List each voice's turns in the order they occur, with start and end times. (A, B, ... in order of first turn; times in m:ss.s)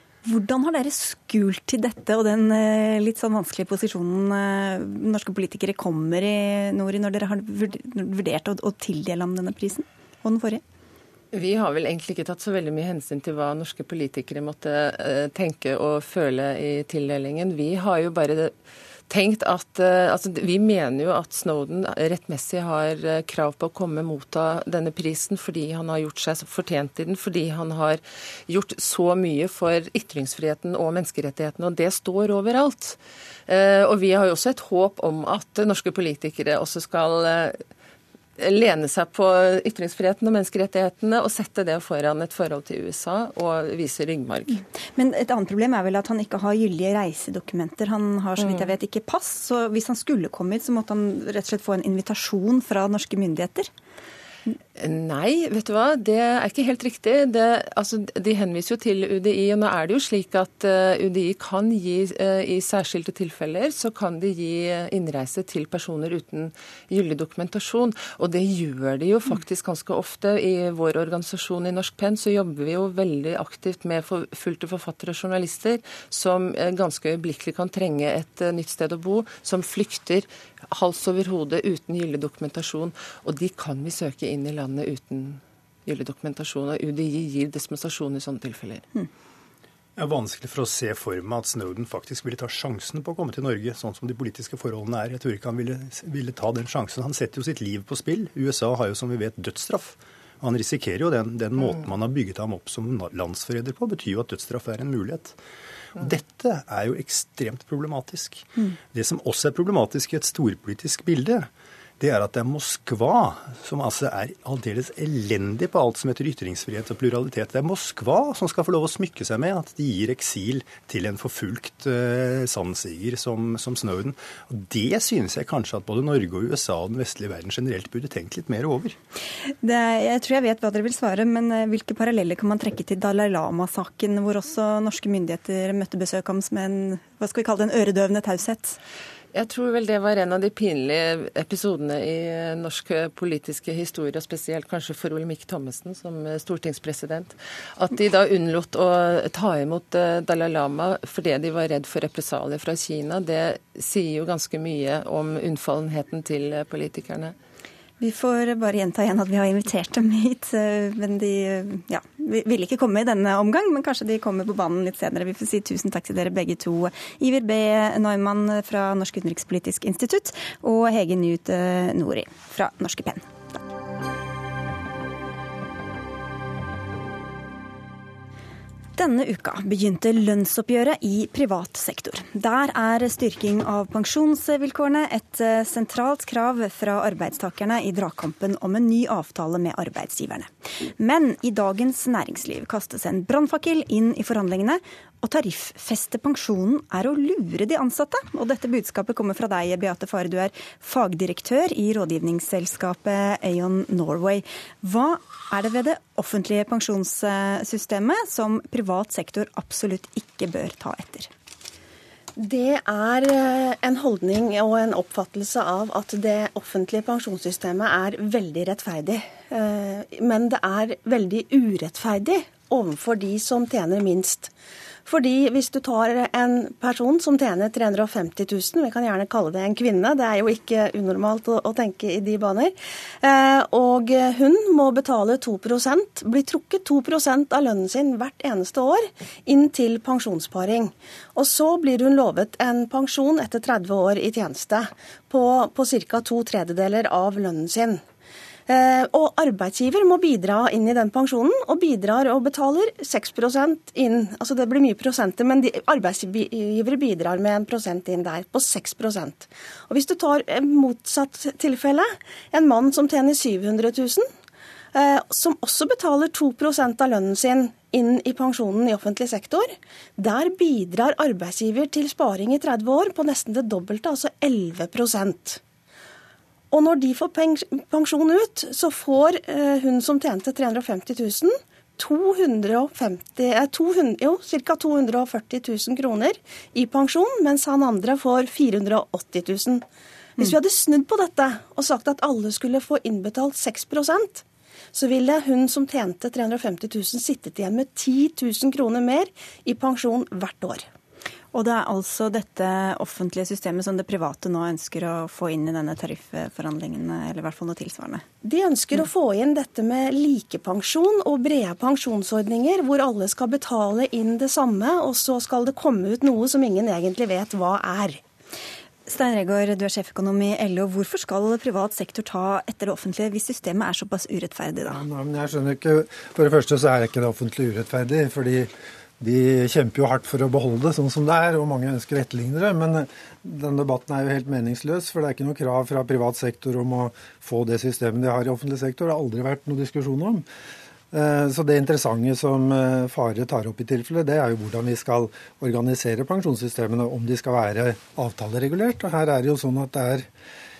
0:00.2-0:10.6 A
0:11.3-0:18.5 B
0:19.1-0:37.6 B
0:38.4-0:44.6 B
0:44.9-0:53.7 A
0:48.4-0:48.7 B
0:54.8-1:28.9 B
1:30.0-1:45.4 C
1:45.9-2:09.0 C
2:09.6-2:18.8 A
2:19.3-2:37.3 B
2:38.0-2:53.3 A
2:59.0-3:31.3 A
3:32.4-3:44.5 D
3:45.0-4:08.0 D
4:08.7-4:24.3 D
4:24.9-4:35.6 D
4:36.7-4:49.8 D
4:50.4-5:00.8 D
5:01.5-5:08.2 A
5:08.4-5:18.2 D
5:19.1-5:25.0 A
5:24.9-5:40.4 E
5:41.1-5:50.3 E